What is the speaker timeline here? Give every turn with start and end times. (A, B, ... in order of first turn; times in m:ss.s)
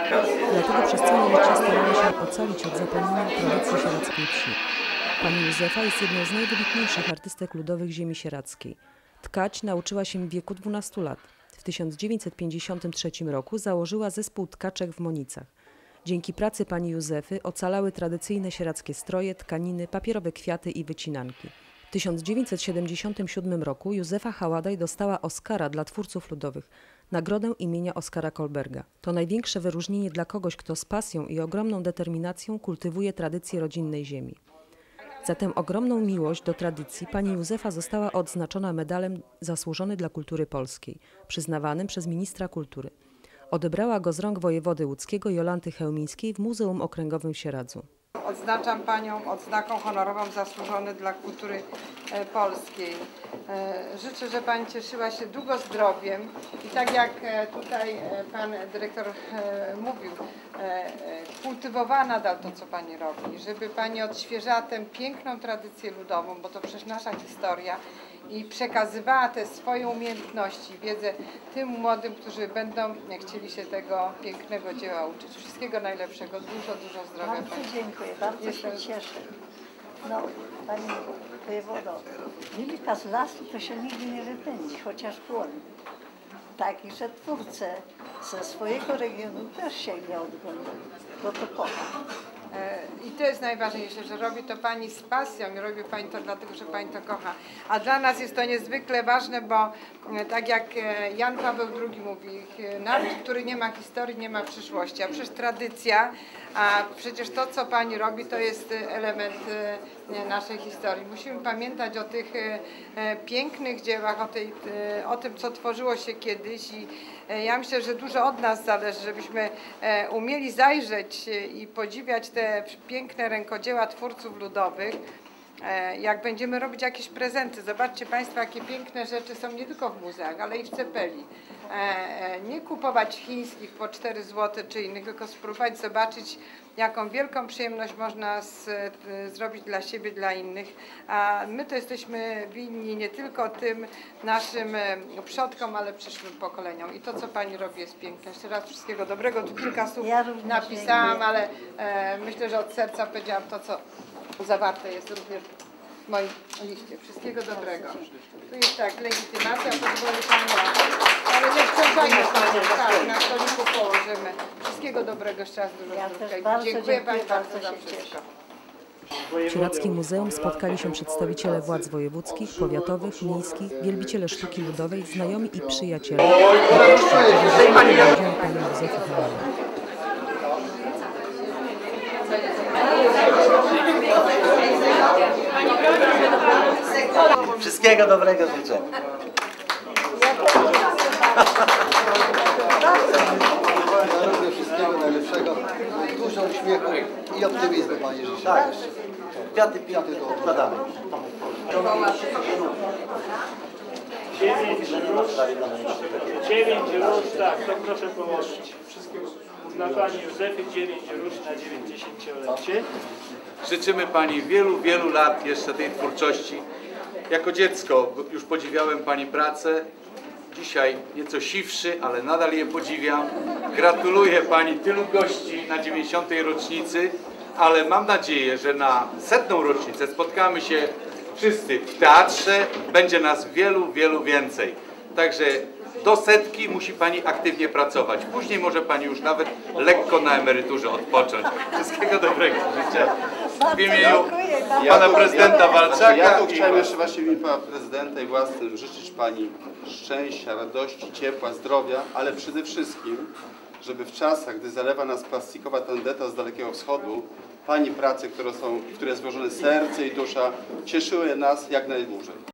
0:00.5-0:04.6 A
0:05.2-0:15.5 A
0:16.0-0:34.4 A
0:35.2-0:42.9 A
0:43.5-0:47.8 A
0:48.2-1:17.7 B
1:17.2-1:19.2 C
1:18.4-1:18.8 B
1:20.0-1:25.6 C
1:26.6-1:31.9 C
1:32.5-2:05.0 B
2:05.6-2:33.8 B
2:30.0-2:31.2 C
2:34.4-2:35.5 B
2:36.1-2:48.2 B
2:45.9-2:48.1 C
2:49.4-2:59.5 A
3:07.6-3:08.8 D
3:10.2-3:11.0 C
3:14.1-3:15.6 E
3:16.1-3:18.8 E
3:19.5-3:20.8 D
3:20.0-3:20.4 E
3:21.8-3:22.4 F
3:24.3-3:32.9 F
3:33.6-3:36.6 G
3:37.3-3:39.9 G
3:40.5-4:04.3 G
4:03.5-4:05.9 C
4:04.8-4:22.4 H
4:04.9-4:06.9 G